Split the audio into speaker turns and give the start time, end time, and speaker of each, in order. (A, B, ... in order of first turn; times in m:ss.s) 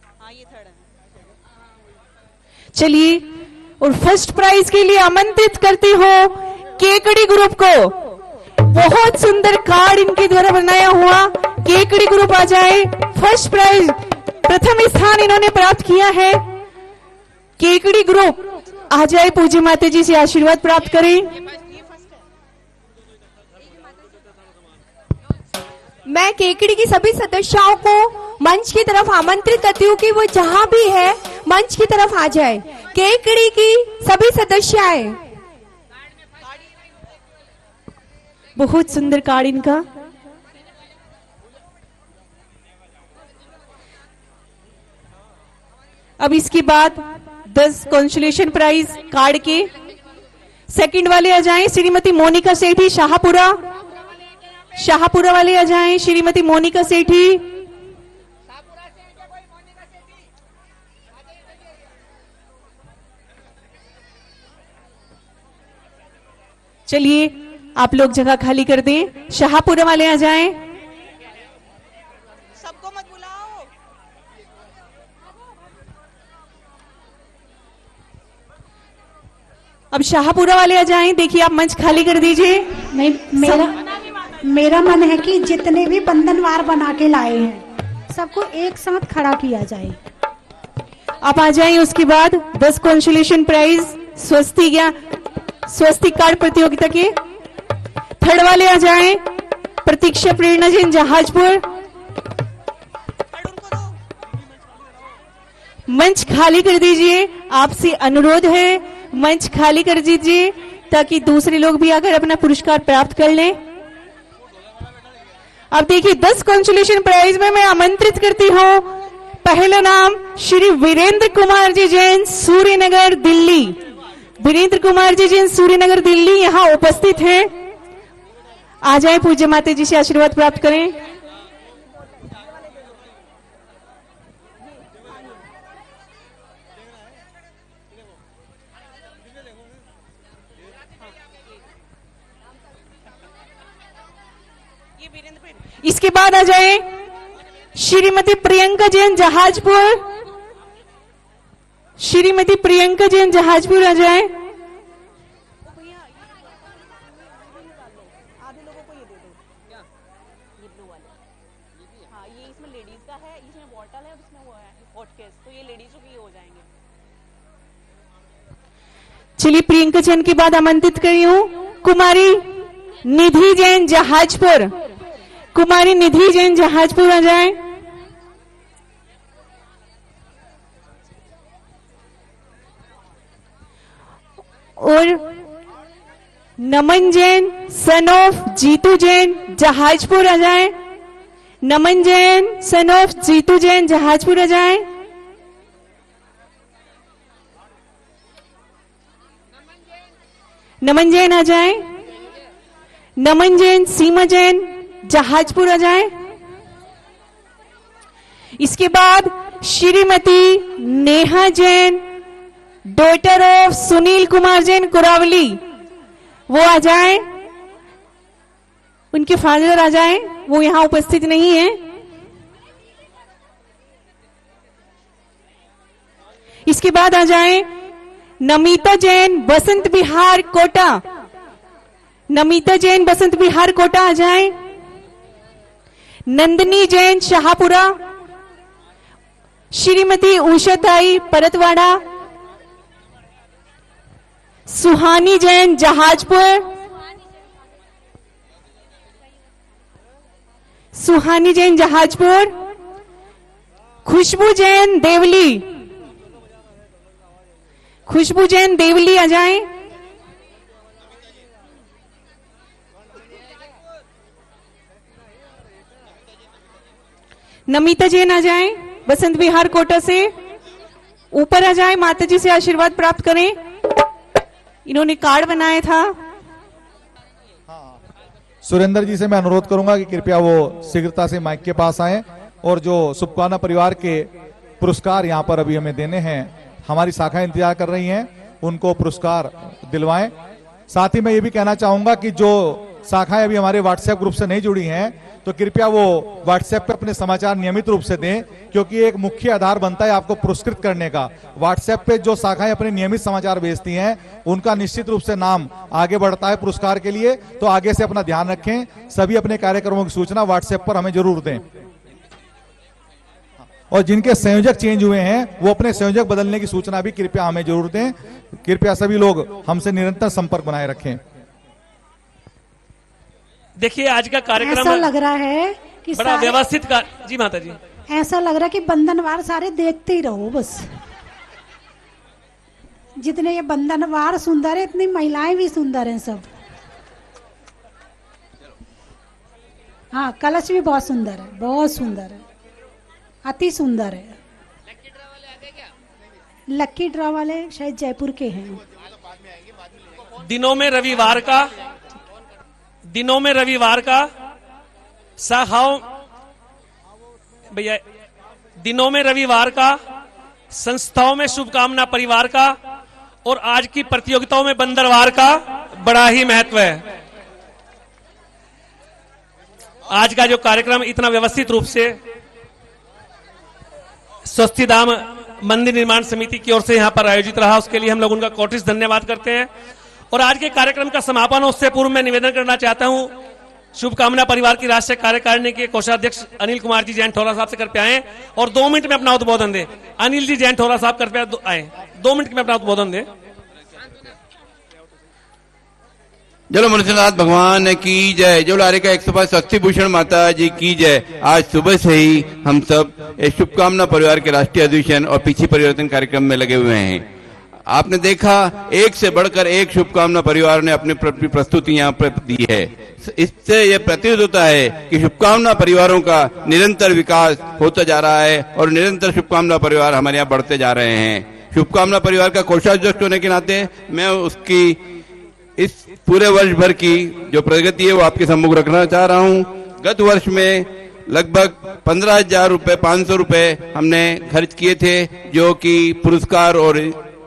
0:00.2-0:00.9 A
0:02.7-0:03.3 B
0:03.8-0:08.0 B
0:08.6-0:16.4 B
0:17.6-0:21.3 B
0:21.5-0:22.2 A
0:26.0-0:35.2 C
0:38.6-0:39.8 B
0:46.2-0:49.7 B
0:50.7-0:53.6 B
0:54.8-0:57.5 B
1:06.9-1:10.6 B
1:12.6-1:13.7 A
1:19.9-1:22.8 B
1:22.9-1:23.8 D
1:24.4-1:30.0 D
1:31.2-1:34.9 B
1:35.6-1:37.2 B
1:38.2-1:39.2 B
1:39.8-1:41.6 B
1:43.3-1:44.0 A
1:45.9-1:53.6 B
1:55.7-2:03.8 B
2:04.4-2:07.5 B
2:08.8-2:11.0 B
2:25.0-2:25.6 A
2:25.8-2:26.9 B
2:27.8-2:30.1 B
2:32.0-2:34.3 B
2:35.6-2:36.5 A
2:37.3-2:39.4 A
2:40.6-2:41.2 A
2:42.1-2:46.7 A
2:49.4-2:52.4 B
2:53.0-2:54.7 B
2:55.5-2:57.6 B
3:04.8-3:05.2 B
3:06.6-3:10.8 B
3:11.6-3:14.9 B
3:20.8-3:21.8 B
3:23.2-3:26.1 B
3:28.6-3:32.0 B
3:32.8-3:35.6 B
3:36.5-3:37.2 B
3:39.1-3:41.8 B
3:46.6-3:47.7 B
3:48.4-3:51.0 B
3:52.3-3:54.5 B
3:56.3-3:58.0 B
3:59.7-4:02.0 B
4:04.7-4:06.7 B
4:10.9-4:12.6 B
4:14.0-4:15.8 B
4:18.1-4:19.7 B
4:27.7-4:30.3 B
4:31.3-4:33.6 B
4:34.8-4:36.2 B
4:38.6-4:50.3 E
4:50.9-5:11.7 E
5:13.9-5:21.2 E
5:23.8-5:25.1 F
5:24.6-5:26.6 D
5:26.2-5:27.8 F
5:28.1-5:30.8 D
5:33.2-5:36.5 D
5:40.1-5:42.4 D
5:43.4-5:44.3 D
5:46.7-5:48.8 D
5:50.4-5:51.7 F
5:53.1-5:54.3 F
5:55.4-5:56.0 F
5:57.7-5:58.0 F
5:58.8-6:00.0 F
6:00.7-6:02.8 F
6:03.4-6:07.0 F
6:10.1-6:12.2 F
6:14.5-6:19.7 F
6:20.3-6:23.3 F
6:23.9-6:33.3 F
6:36.7-6:47.2 G
6:47.9-7:05.0 G
7:05.8-7:17.2 G